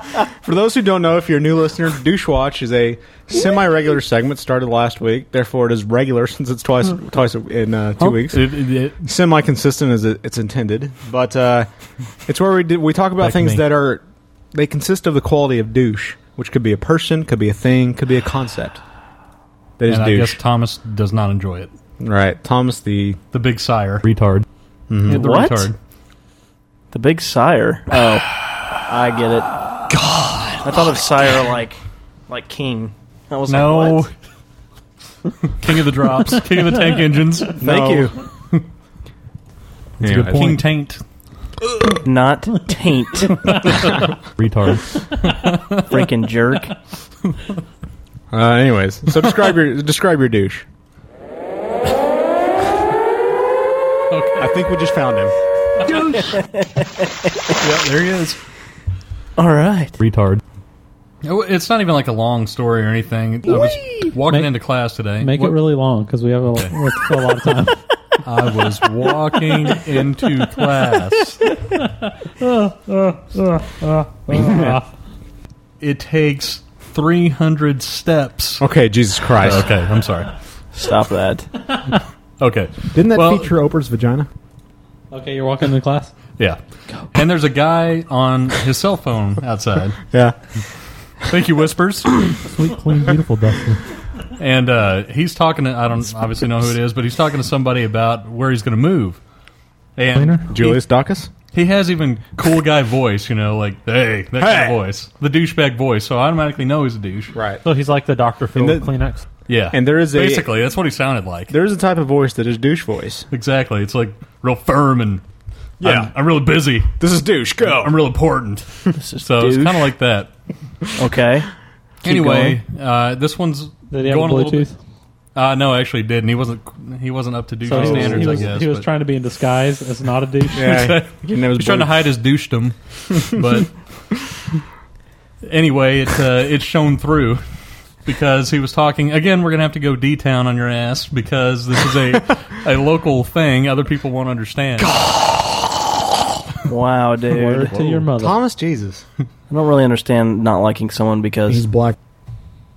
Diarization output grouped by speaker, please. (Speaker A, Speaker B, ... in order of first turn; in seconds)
Speaker A: 0.4-8.5, 9.0-11.7, 12.2-14.0, 14.5-18.8, 19.8-20.4, 22.0-23.2, 24.9-25.2, 37.6-38.1, 40.0-40.6, 48.3-50.6, 54.4-55.3, 78.6-79.7, 82.9-84.3, 100.5-101.3, 104.4-104.7, 107.3-107.6, 108.5-108.9, 109.7-110.5, 111.5-113.2, 115.8-116.1, 117.0-117.9, 127.7-128.5, 130.5-131.9, 147.8-149.0
Speaker B: 8.0-9.0, 13.2-13.6, 19.9-21.7, 23.3-24.4, 25.0-25.8, 30.1-30.9, 33.5-34.1, 35.6-37.6, 40.0-41.0, 44.4-45.8, 54.1-54.5, 57.6-58.4, 60.0-60.4, 61.2-65.6, 68.2-71.4, 75.8-78.6, 79.3-80.3, 82.4-83.5, 87.1-90.0, 91.3-92.3, 94.4-99.2, 100.0-100.8, 101.5-107.3, 109.5-111.5, 113.3-115.2, 115.8-116.9, 117.6-120.3, 122.0-124.7, 125.3-128.9, 130.5-133.7, 135.4-137.4, 138.0-145.0
Speaker C: 25.1-25.7, 26.9-28.2, 28.9-29.5, 30.6-34.1, 37.6-38.1, 42.0-43.5, 45.9-46.7, 59.4-60.0, 80.7-81.5, 119.0-119.9, 121.0-121.5, 122.1-122.6, 146.7-147.8, 149.5-151.7
Speaker D: 64.3-64.5, 65.2-67.8, 72.4-74.8, 85.1-86.1, 92.5-93.8, 100.2-100.5, 107.6-109.2, 123.9-124.8, 127.7-130.8, 147.3-148.4